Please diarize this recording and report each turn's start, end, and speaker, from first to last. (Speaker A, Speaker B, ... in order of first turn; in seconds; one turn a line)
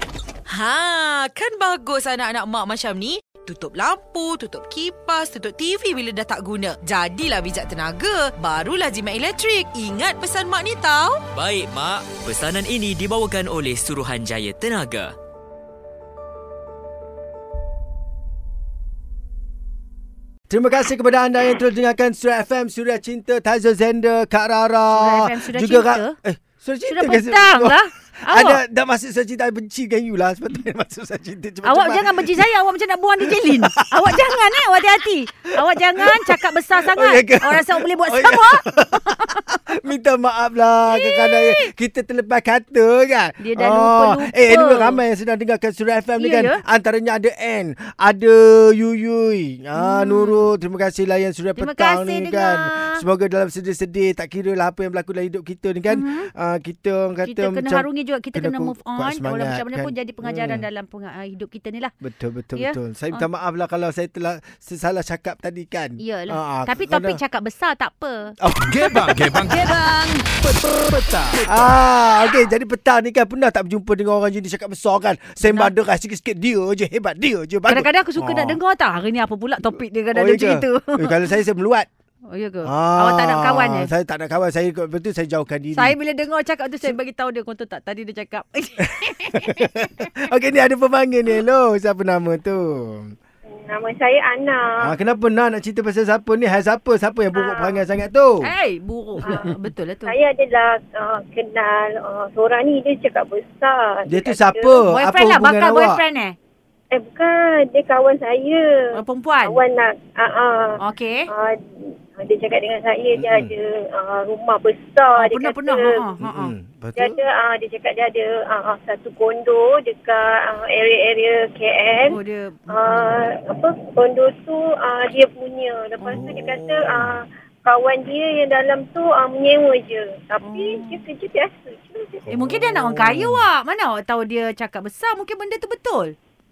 Speaker A: 0.5-11.2
Speaker B: 5.9-6.9
Speaker B: 7.6-8.0
Speaker C: 11.3-15.1
Speaker D: 20.5-32.5
Speaker B: 24.9-26.1
Speaker B: 26.9-28.6
Speaker B: 31.6-39.4
Speaker D: 33.2-34.3
Speaker D: 36.0-60.6
Speaker B: 40.9-41.7
Speaker B: 43.4-45.0
Speaker B: 46.2-46.6
Speaker B: 49.7-50.5
Speaker B: 51.5-53.0
Speaker B: 55.9-56.3
Speaker B: 57.2-61.9
Speaker D: 62.0-67.2
Speaker B: 62.5-63.3
Speaker B: 66.0-70.3
Speaker D: 68.4-69.3
Speaker E: 68.5-71.7
Speaker D: 71.4-78.6
Speaker B: 75.4-75.7
Speaker B: 77.7-81.3
Speaker D: 80.1-81.9
Speaker B: 82.3-83.9
Speaker D: 82.6-86.0
Speaker B: 85.7-90.1
Speaker D: 88.8-93.1
Speaker F: 93.5-94.9
Speaker D: 94.8-98.5
Speaker F: 97.3-97.8
Speaker B: 98.4-100.1
Speaker F: 100.0-104.8
Speaker D: 104.1-106.0
Speaker B: 104.8-106.3
Speaker F: 106.9-108.9
Speaker B: 108.9-109.6
Speaker F: 109.4-110.8
Speaker B: 110.8-111.3
Speaker F: 111.3-116.2
Speaker D: 113.2-113.5
Speaker B: 115.2-116.5
Speaker D: 116.2-117.2
Speaker F: 117.0-122.2
Speaker B: 122.0-123.1
Speaker F: 122.7-132.3
Speaker B: 126.0-126.3
Speaker D: 126.1-127.2
Speaker B: 130.4-131.0
Speaker D: 132.2-133.4
Speaker B: 132.3-136.1